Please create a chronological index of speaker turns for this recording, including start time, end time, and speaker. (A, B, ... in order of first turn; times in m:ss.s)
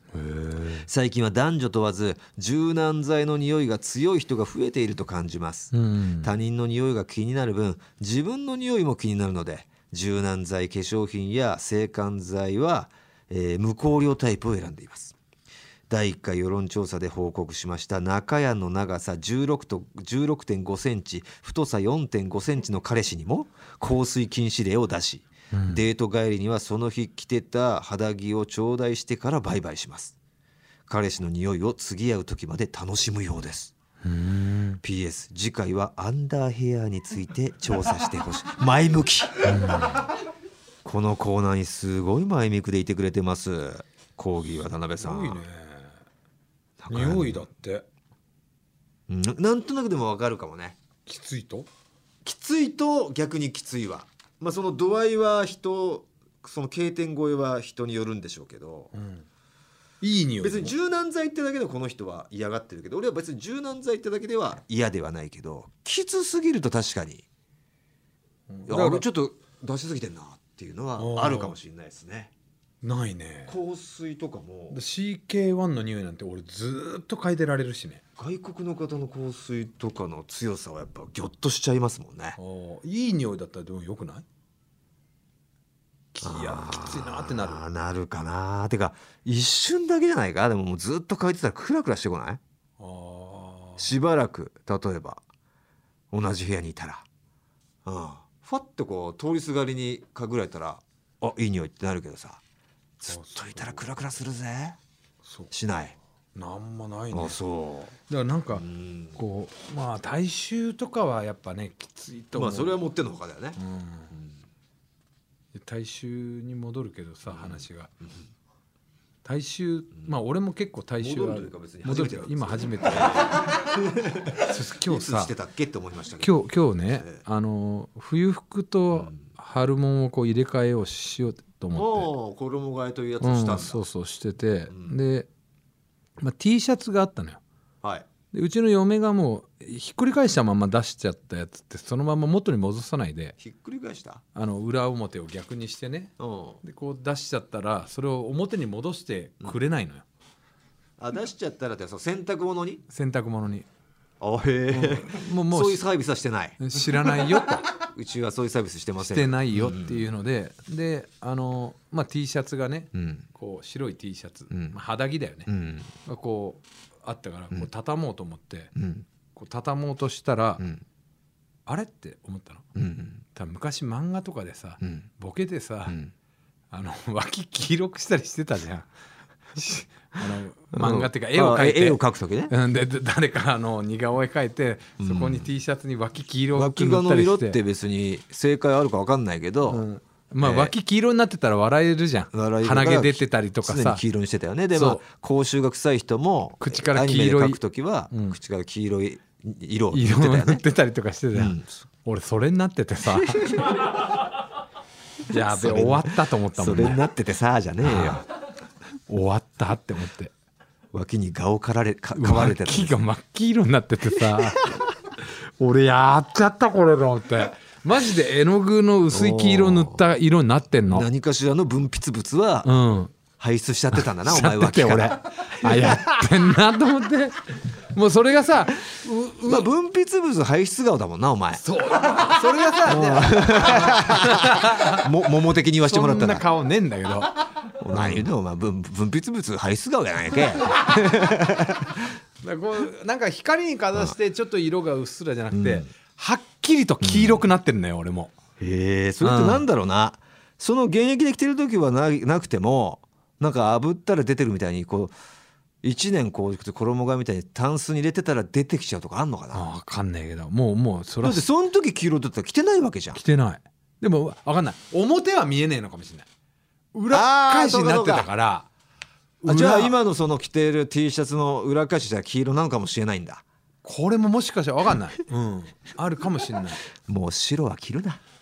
0:00.1-0:00.9 A
0:00.8-0:15.2 B
0:05.7-0:06.3 A
0:15.9-0:30.2 B
0:25.5-0:25.8 A
0:30.9-0:33.7 B
0:34.0-0:34.8 A
0:34.8-0:39.4 B
0:39.4-0:40.1 A
0:40.8-0:45.4 B
0:45.0-0:46.0 A
0:46.8-0:47.5 B
0:46.9-0:47.9 A
0:49.1-0:50.8 B
0:51.1-0:51.7 A
0:52.2-0:58.9 B
0:58.9-0:59.3 A
1:00.0-1:00.7 A
1:00.4-1:07.2 B
1:08.5-1:09.0 A
1:08.7-1:12.3 B
1:11.0-1:11.6 A
1:12.8-1:13.6 A
1:13.5-1:14.8 B
1:14.7-1:18.0 A
1:18.2-1:22.4 B
1:22.4-1:24.2 A
1:26.1-1:27.6 A
1:26.2-1:32.4 B
1:32.8-1:33.9 A
1:33.8-1:35.2 B
1:36.1-1:37.0 B
1:37.8-1:42.4 B
1:43.0-1:44.8 B
1:43.1-1:43.8 A
1:45.2-1:45.5 A
1:45.5-1:46.0 B
1:46.4-1:47.4 A
1:47.1-1:47.9 B
1:48.0-1:52.8 A
1:48.5-1:49.2 B
1:52.4-1:53.6 B
1:53.6-1:54.1 A
1:55.5-1:57.9 A
1:57.3-1:58.1 B
1:59.2-2:03.5 A
2:01.0-2:06.4 B
2:04.4-2:05.3 A
2:06.2-2:12.1 A
2:07.0-2:07.2 B
2:08.9-2:09.3 B
2:11.7-2:13.8 B
2:13.2-2:15.3 A
2:14.7-2:15.0 B
2:16.2-2:17.4 A
2:17.8-2:18.1 B
2:18.3-2:23.4 A
2:23.4-2:24.2 B
2:24.4-2:30.0 A
2:26.2-2:26.6 B
2:31.0-2:32.8 B
2:32.9-2:33.7 A
2:34.2-2:37.2 B
2:34.7-2:35.8 A
2:36.6-2:37.7 A
2:37.8-2:40.0 B
2:39.0-2:45.5 A
2:42.9-2:43.3 B
2:44.5-2:44.8 B
2:45.5-2:45.9 B
2:46.0-2:48.7 A
2:48.8-2:49.0 B
2:49.4-2:50.6 A
2:51.7-2:52.7 A
2:52.8-2:53.2 B
2:53.3-2:56.0 A
2:56.7-2:58.9 A
2:59.6-3:07.6 A
3:00.7-3:02.5 B
3:05.0-3:05.5 B
3:06.6-3:09.8 B
3:09.7-3:14.0 A
3:10.4-3:10.7 B
3:12.3-3:20.6 B
3:14.7-3:15.0 A
3:16.6-3:18.4 A
3:19.9-3:23.8 A
3:21.3-3:21.7 B
3:25.3-3:27.0 A
3:25.3-3:28.2 B
3:27.8-3:28.2 A
3:29.1-3:30.3 A
3:30.9-3:33.0 B
3:32.2-3:41.1 A
3:39.1-3:40.1 B
3:40.9-3:42.7 B
3:42.6-3:43.1 A
3:43.4-3:46.1 B
3:43.9-3:49.7 A
3:49.5-3:51.6 B
3:51.6-3:55.1 A
3:52.8-3:56.4 B
3:55.9-3:58.3 A
3:57.8-4:02.1 B
4:02.4-4:08.3 A
4:05.5-4:05.9 B
4:07.0-4:07.4 B
4:08.6-4:15.1 B
4:09.2-4:09.6 A
4:15.8-4:19.7 B
4:19.5-4:21.4 A
4:21.2-4:23.2 B
4:23.1-4:26.3 A
4:26.9-4:28.7 A
4:27.1-4:28.3 B
4:29.4-4:30.0 A
4:29.4-4:33.4 B
4:33.8-4:36.8 A
4:37.1-4:38.2 B